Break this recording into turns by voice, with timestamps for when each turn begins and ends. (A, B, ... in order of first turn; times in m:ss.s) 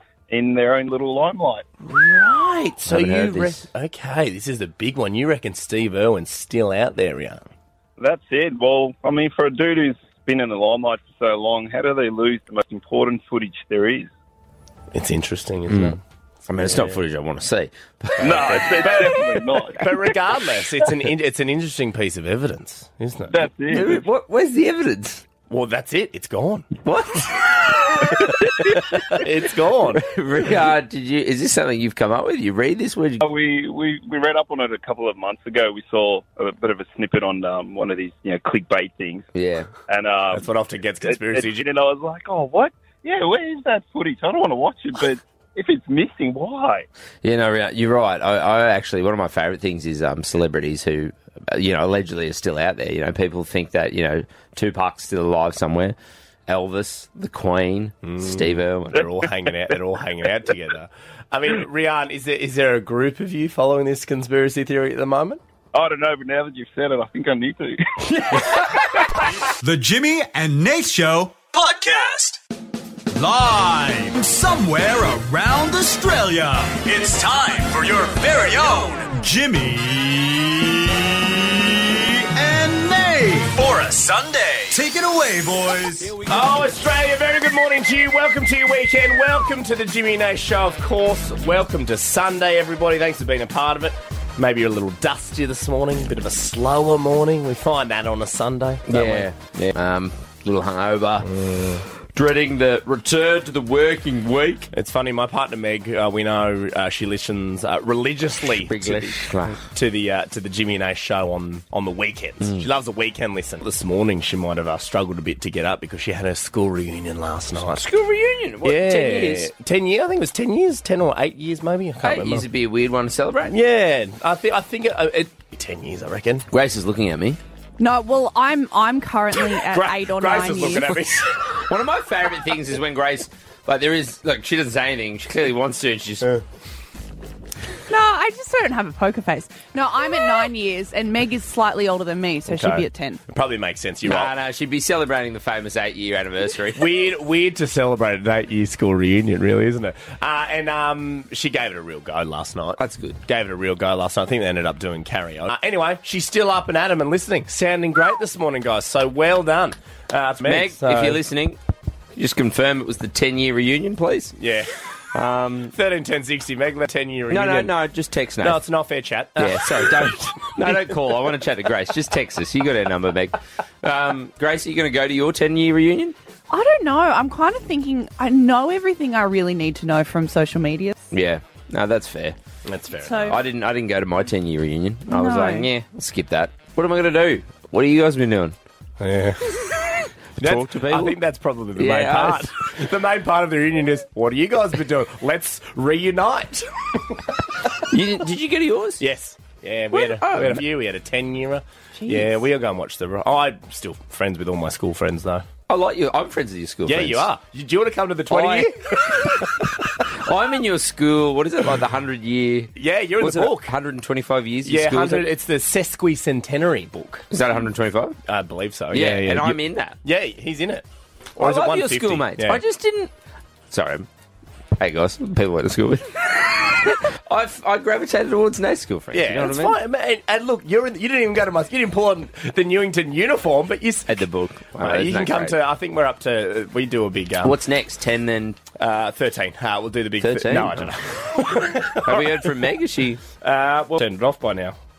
0:00.3-0:01.7 A
0:01.8-0:07.4 B
0:02.9-0:03.6 C
0:08.0-0:14.1 A
0:14.9-0:16.0 B
0:15.7-0:16.0 C
0:16.5-0:19.0 C
0:16.6-0:17.0 B
0:18.2-0:20.1 A
0:18.5-0:23.4 B
0:23.3-0:24.0 A
0:23.7-0:25.3 C
0:25.5-0:26.7 B
0:26.8-0:29.2 C
0:28.9-0:30.1 B
0:30.0-0:33.3 C
0:33.2-0:39.3 A
0:39.3-0:39.7 C
0:39.9-0:40.5 A
0:40.3-0:41.7 B
0:41.1-0:46.9 A
0:47.2-0:59.0 C
0:58.0-1:05.4 B
1:05.7-1:08.6 A
1:09.6-1:12.4 D
1:13.1-1:26.2 D
1:26.2-1:39.3 B
1:38.9-1:41.3 C
1:41.2-1:41.8 B
1:42.1-1:44.7 C
1:44.7-1:57.8 B
1:48.7-1:49.7 C
1:57.6-1:59.5 C
1:58.6-2:02.5 B
2:02.0-2:03.6 C
2:03.5-2:06.5 B
2:06.5-2:07.4 C
2:07.8-2:11.0 E
2:09.5-2:11.6 B
2:11.7-2:16.3 C
2:17.9-2:23.2 E
2:22.5-2:24.3 B
2:24.0-2:26.9 C
2:26.8-2:41.2 B
2:32.8-2:33.2 C
2:40.4-2:41.6 C
2:42.2-2:44.4 C
2:44.4-2:44.7 B
2:45.1-2:45.7 C
2:45.7-2:47.7 B
2:47.3-2:48.6 C
2:48.4-2:50.9 B
2:49.4-2:56.2 C
2:56.5-3:00.9 E
3:01.1-3:02.4 C
3:02.6-3:03.4 B
3:03.0-3:03.4 E
3:03.3-3:08.6 C
3:05.1-3:05.7 E
3:09.0-3:09.5 B
3:10.4-3:11.2 C
3:10.4-3:17.1 B
3:11.8-3:12.5 C
3:17.9-3:19.0 C
3:19.0-3:25.4 B
3:19.9-3:20.6 C
3:22.0-3:22.3 E
3:25.7-3:27.3 C
3:26.9-3:29.7 B
3:28.3-3:29.5 C
3:30.0-3:35.3 C
3:32.8-3:33.7 B
3:34.6-3:37.3 B
3:37.3-3:38.2 C
3:38.3-3:40.8 B
3:38.9-3:40.0 C
3:41.4-3:42.6 B
3:41.4-3:43.1 C
3:43.7-3:44.1 C
3:44.8-3:49.8 C
3:49.1-3:54.2 B
3:54.1-3:55.6 C
3:54.8-3:57.6 B
3:57.4-3:58.6 C
3:58.8-4:02.5 B
4:00.2-4:00.9 C
4:02.0-4:03.2 C
4:03.4-4:04.8 B